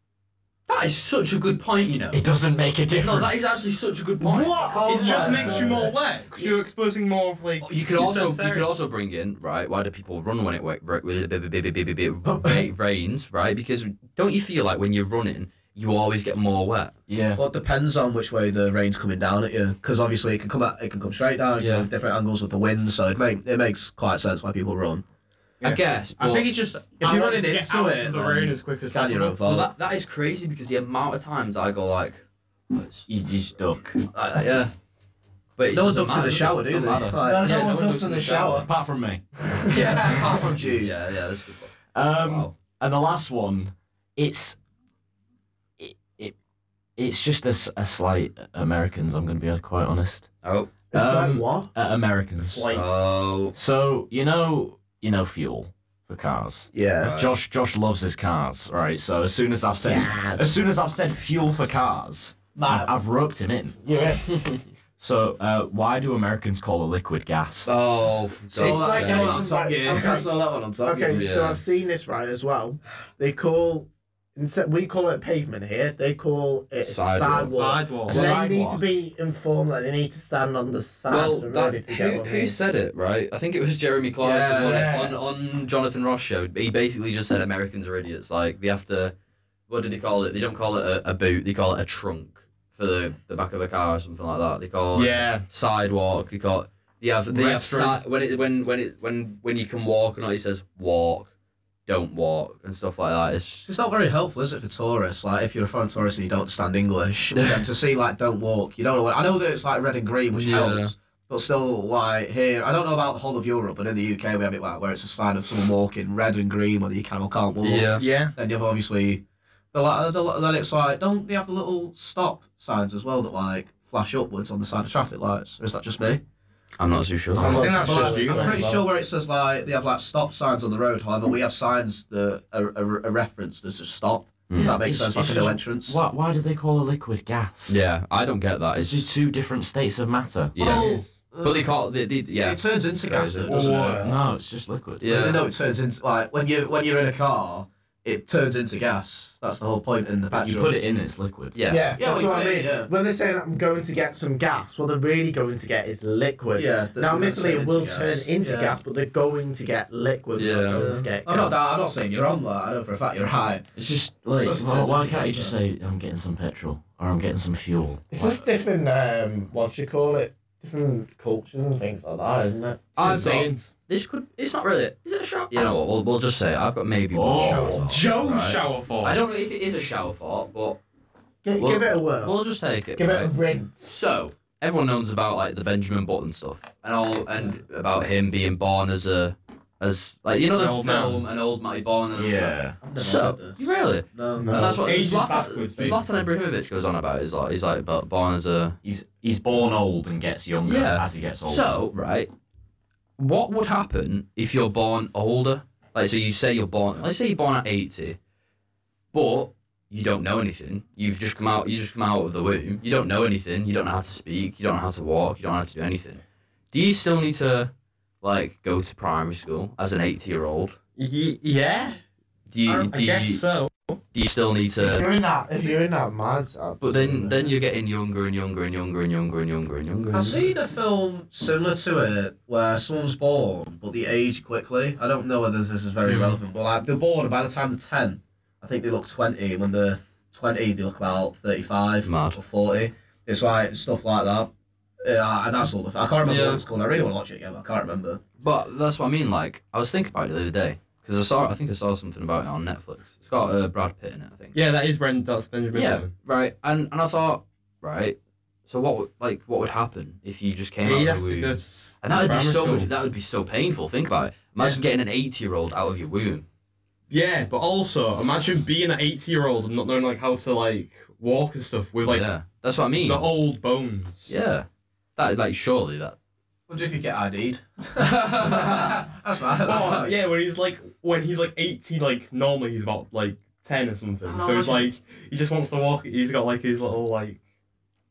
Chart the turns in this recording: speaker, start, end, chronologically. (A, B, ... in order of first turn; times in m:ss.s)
0:00.7-0:02.2 A
0:02.1-0:03.5 B
0:03.0-0:05.9 A
0:04.2-0:06.0 C
0:04.6-0:08.7 D
0:05.1-0:05.7 E
0:07.6-0:16.9 A
0:17.1-0:17.4 B
0:17.4-0:25.0 E
0:21.6-0:21.9 A
0:25.6-0:29.5 D
0:25.6-0:26.5 A
0:27.0-0:29.7 E
0:29.4-0:33.0 A
0:33.1-0:34.0 B
0:34.1-0:34.7 A
0:35.6-0:38.7 A
0:35.7-0:37.7 E
0:37.2-0:38.7 C
0:38.6-0:39.6 B
0:39.7-0:41.0 E
0:40.8-0:42.5 A
0:41.9-0:44.6 B
0:45.8-0:46.3 B
0:47.0-0:50.3 B
0:50.4-0:50.7 A
0:50.9-0:51.7 C
0:50.9-0:52.6 B
0:52.4-0:53.1 D
0:52.7-0:53.5 A
0:53.5-1:03.8 B
0:56.7-0:57.4 C
0:59.8-1:00.5 C
1:02.6-1:02.9 C
1:03.8-1:04.6 C
1:05.0-1:07.7 B
1:07.6-1:09.4 A
1:08.5-1:10.3 C
1:08.5-1:11.2 E
1:10.8-1:22.5 C
1:11.1-1:11.6 A
1:16.8-1:18.3 A
1:17.5-1:18.3 D
1:18.1-1:18.9 B
1:21.1-1:29.1 A
1:24.2-1:24.9 E
1:24.6-1:25.1 D
1:29.7-1:41.3 A
1:34.9-1:35.4 D
1:37.3-1:37.9 D
1:41.8-1:43.7 A
1:43.7-1:59.2 E
1:50.3-1:50.9 A
1:57.6-1:58.0 A
1:58.0-1:58.3 D
1:59.7-2:06.2 E
2:06.8-2:07.7 A
2:07.4-2:08.6 D
2:07.4-2:08.9 C
2:07.8-2:16.0 E
2:14.5-2:14.8 A
2:14.6-2:17.8 B
2:17.7-2:19.1 A
2:18.7-2:20.5 B
2:20.5-2:23.5 A
2:20.6-2:21.7 E
2:20.6-2:21.1 D
2:22.4-2:24.0 E
2:23.4-2:24.2 D
2:24.0-2:25.0 B
2:25.0-2:25.4 A
2:25.0-2:30.8 E
2:30.3-2:31.6 B
2:31.5-2:31.9 A
2:31.7-2:41.9 C
2:31.9-2:32.9 E
2:36.5-2:38.8 E
2:40.3-2:40.9 A
2:40.7-2:43.6 E
2:43.7-2:48.4 B
2:44.4-2:45.6 E
2:48.1-2:52.9 C
2:53.0-3:00.8 A
2:53.0-2:53.7 D
2:53.1-2:53.3 E
2:57.1-2:57.9 B
2:57.2-2:59.5 D
3:01.4-3:02.4 C
3:01.6-3:18.8 A
3:02.9-3:04.0 C
3:10.5-3:11.2 D
3:12.1-3:12.8 B
3:12.8-3:14.5 E
3:14.3-3:14.9 C
3:14.8-3:16.0 D
3:18.8-3:21.8 B
3:20.6-3:22.3 A
3:23.2-3:28.2 A
3:29.1-3:37.7 A
3:38.2-3:40.8 A
3:41.0-3:42.0 D
3:42.5-3:43.4 A
3:42.6-3:44.0 D
3:44.1-3:45.0 A
3:44.8-3:47.5 C
3:46.8-3:50.5 A
3:50.1-4:04.5 E
3:56.0-3:56.4 A
4:02.0-4:02.4 A
4:05.0-4:08.2 E
4:06.2-4:06.6 A
4:08.4-4:14.6 A
4:14.5-4:16.1 D
4:15.7-4:26.4 A
4:20.8-4:22.9 D
4:24.6-4:24.8 D
4:27.1-4:32.3 D
4:32.0-4:33.3 A
4:33.0-4:34.3 D
4:34.3-4:36.2 A
4:36.7-4:40.2 E
4:38.0-4:39.0 A
4:39.6-4:47.4 D
4:44.2-4:44.9 E